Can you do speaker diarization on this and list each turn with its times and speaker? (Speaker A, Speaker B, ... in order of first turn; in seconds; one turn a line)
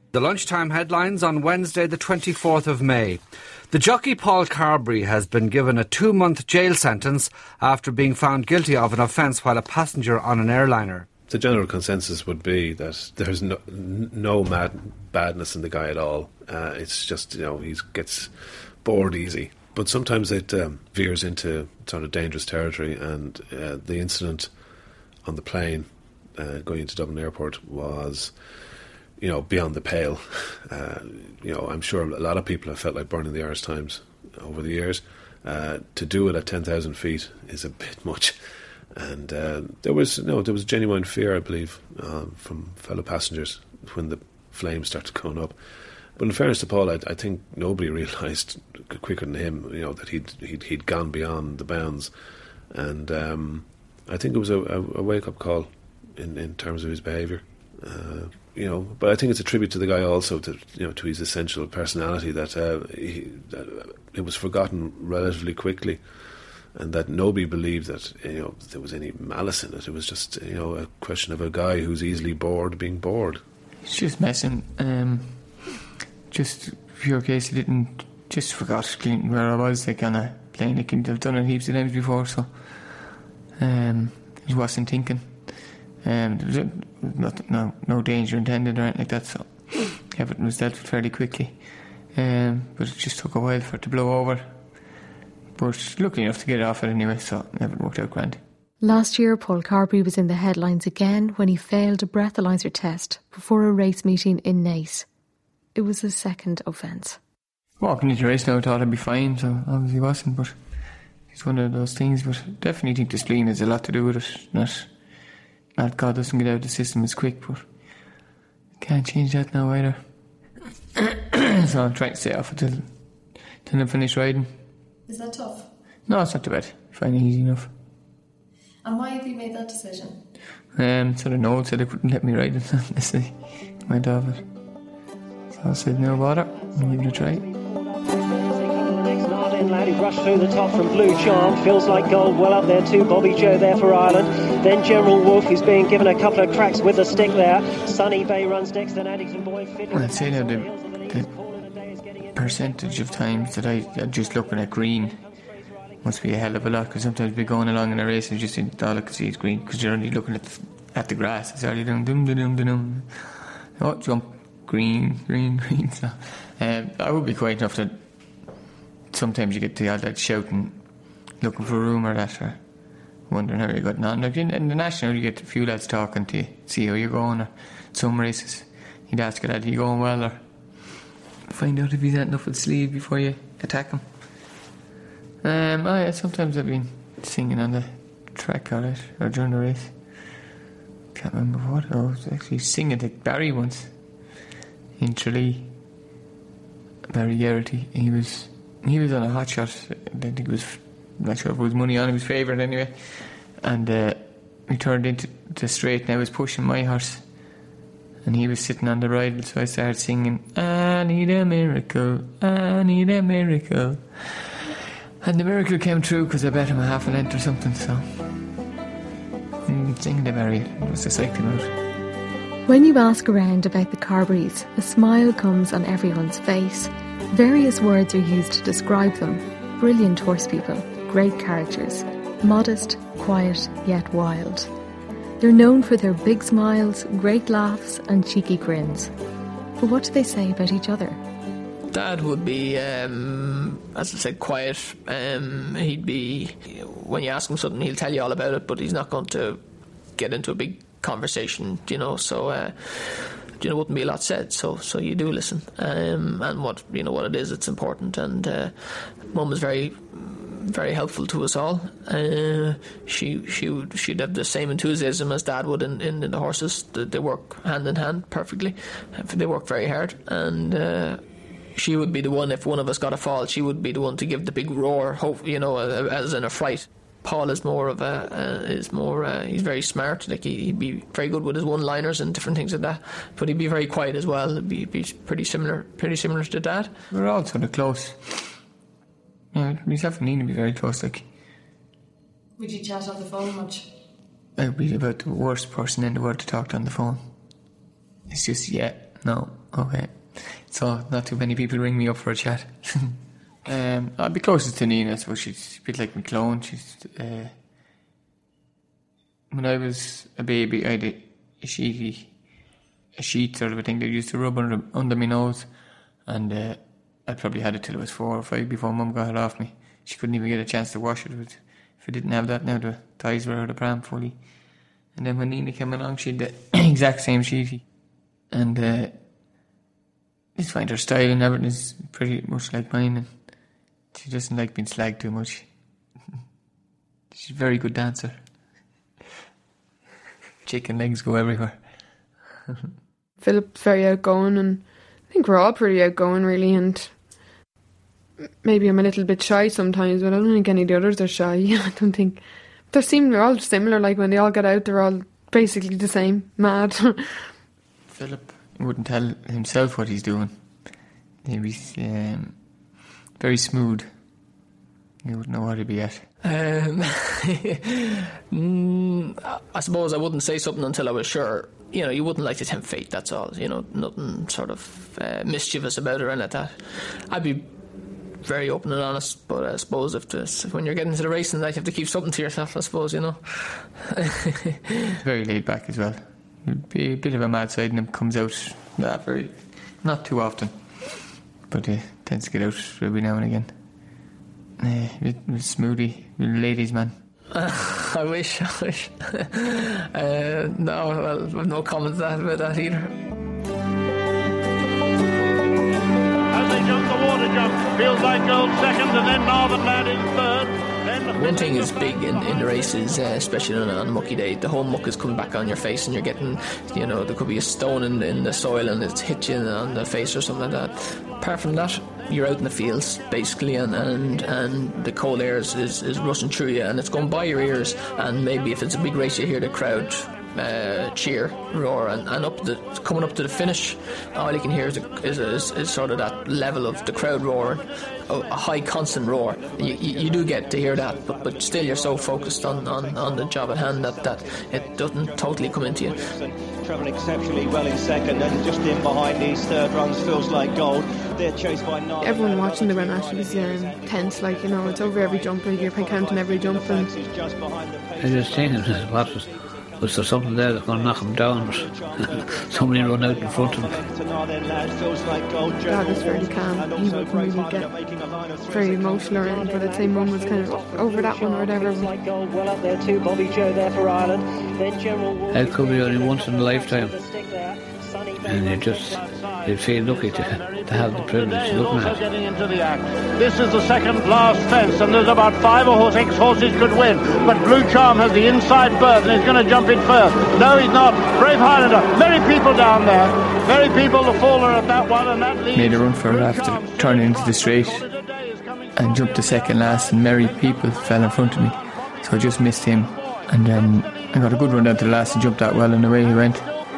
Speaker A: 0.1-11.1
Speaker B: 11.3-73.4
Speaker C: 73.8-75.8
Speaker C: 76.3-95.0
Speaker C: 95.6-98.4
Speaker D: 98.8-105.1
Speaker D: 105.8-107.2
Speaker C: 107.8-114.9
Speaker C: 115.8-117.9
Speaker C: 118.8-120.2
Speaker C: 121.0-124.5
Speaker E: 125.1-125.7
Speaker C: 126.1-127.7
Speaker E: 128.8-130.2
Speaker C: 130.7-134.5
Speaker C: 135.6-137.4
Speaker F: 136.5-152.1
Speaker C: 149.9-151.3
Speaker C: 152.3-155.4
Speaker C: 156.0-180.9
Speaker C: 181.5-184.5
Speaker C: 185.4-190.3
Speaker C: 191.1-194.3
Speaker C: 195.0-195.8
Speaker C: 197.1-207.7
Speaker C: 208.2-214.6
Speaker C: 215.2-218.5
Speaker C: 219.7-221.7
Speaker D: 222.7-234.7
Speaker D: 235.4-239.1
Speaker D: 239.8-241.2
Speaker G: 241.9-286.9
Speaker C: 287.1-288.6
Speaker C: 289.5-291.3
Speaker E: 292.6-293.9
Speaker C: 294.6-297.3
Speaker C: 298.3-307.6
Speaker C: 309.5-329.3
Speaker C: 330.6-335.9
Speaker C: 337.3-338.7
Speaker C: 340.6-342.3
Speaker H: 343.4-347.2
Speaker H: 348.6-357.5
Speaker C: 358.1-364.5
Speaker C: 365.2-366.3
Speaker G: 366.4-384.3
Speaker C: 385.2-394.2
Speaker C: 394.8-397.2
Speaker G: 397.5-403.1
Speaker I: 406.5-411.6
Speaker G: 411.4-446.3
Speaker J: 439.6-445.0
Speaker J: 445.9-459.8
Speaker H: 452.2-457.1
Speaker K: 458.2-461.9
Speaker J: 461.7-470.3
Speaker K: 462.7-464.0
Speaker H: 465.9-468.1
Speaker H: 468.7-472.1
Speaker F: 469.5-478.6
Speaker K: 475.5-477.1
Speaker K: 478.4-482.2
Speaker I: 479.2-498.9
Speaker C: 495.7-498.1
Speaker C: 498.9-506.7